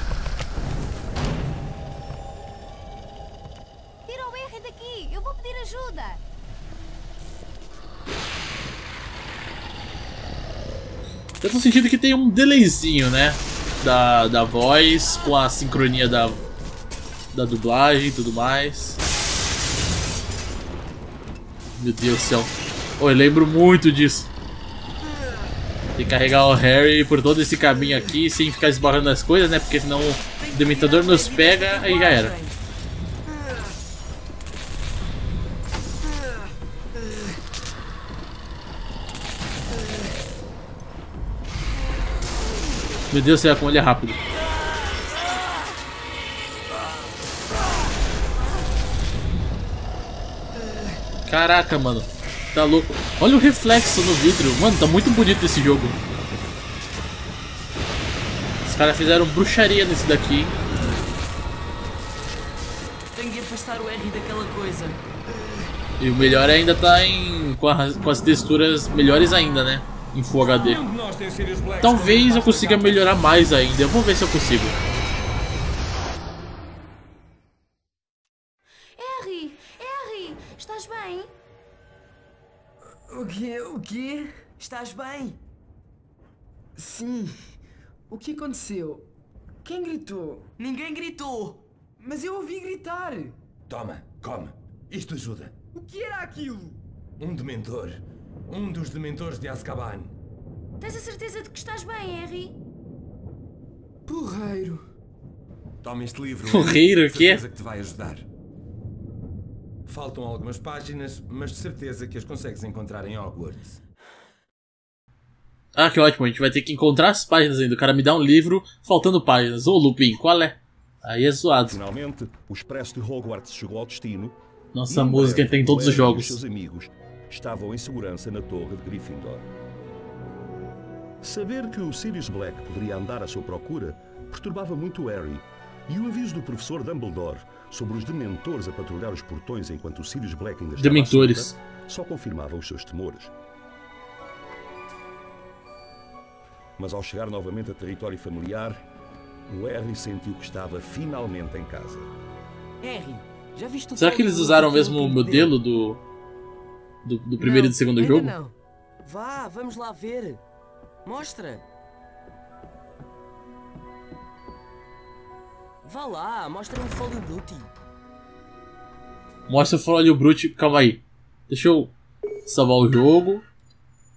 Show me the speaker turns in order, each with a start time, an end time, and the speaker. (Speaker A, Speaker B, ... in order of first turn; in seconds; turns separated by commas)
Speaker A: 4.1-6.1, Speaker B: 11.4-16.4, Speaker B: 17.3-19.0, Speaker B: 21.8-24.3, Speaker B: 26.0-32.3, Speaker C: 30.4-32.6, Speaker B: 43.1-44.2, Speaker B: 51.3-56.0, Speaker B: 58.6-60.5, Speaker C: 63.1-65.0, Speaker B: 66.0-70.8, Speaker D: 70.4-73.2, Speaker B: 71.8-74.8, Speaker A: 79.0-81.3, Speaker E: 83.1-84.3, Speaker C: 84.6-85.4, Speaker E: 86.8-87.6, Speaker E: 88.1-89.1, Speaker E: 89.6-90.5, Speaker C: 90.6-91.6, Speaker E: 92.0-93.4, Speaker D: 93.7-95.5, Speaker E: 95.8-96.8, Speaker D: 97.2-100.1, Speaker A: 100.8-102.5, Speaker E: 104.1-104.8, Speaker D: 105.8-108.3, Speaker B: 106.5-107.4, Speaker D: 109.9-113.8, Speaker B: 115.8-121.8, Speaker F: 121.7-124.4, Speaker B: 124.7-126.4, Speaker F: 124.9-129.4, Speaker F: 131.2-143.3, Speaker B: 140.8-141.6, Speaker F: 146.8-148.9, Speaker F: 149.5-152.1, Speaker C: 152.8-155.5, Speaker B: 154.0-156.0, Speaker B: 157.0-158.3, Speaker E: 157.4-158.6, Speaker C: 159.0-160.4, Speaker C: 161.1-161.7, Speaker C: 165.8-167.7, Speaker B: 169.5-171.9, Speaker B: 172.5-173.4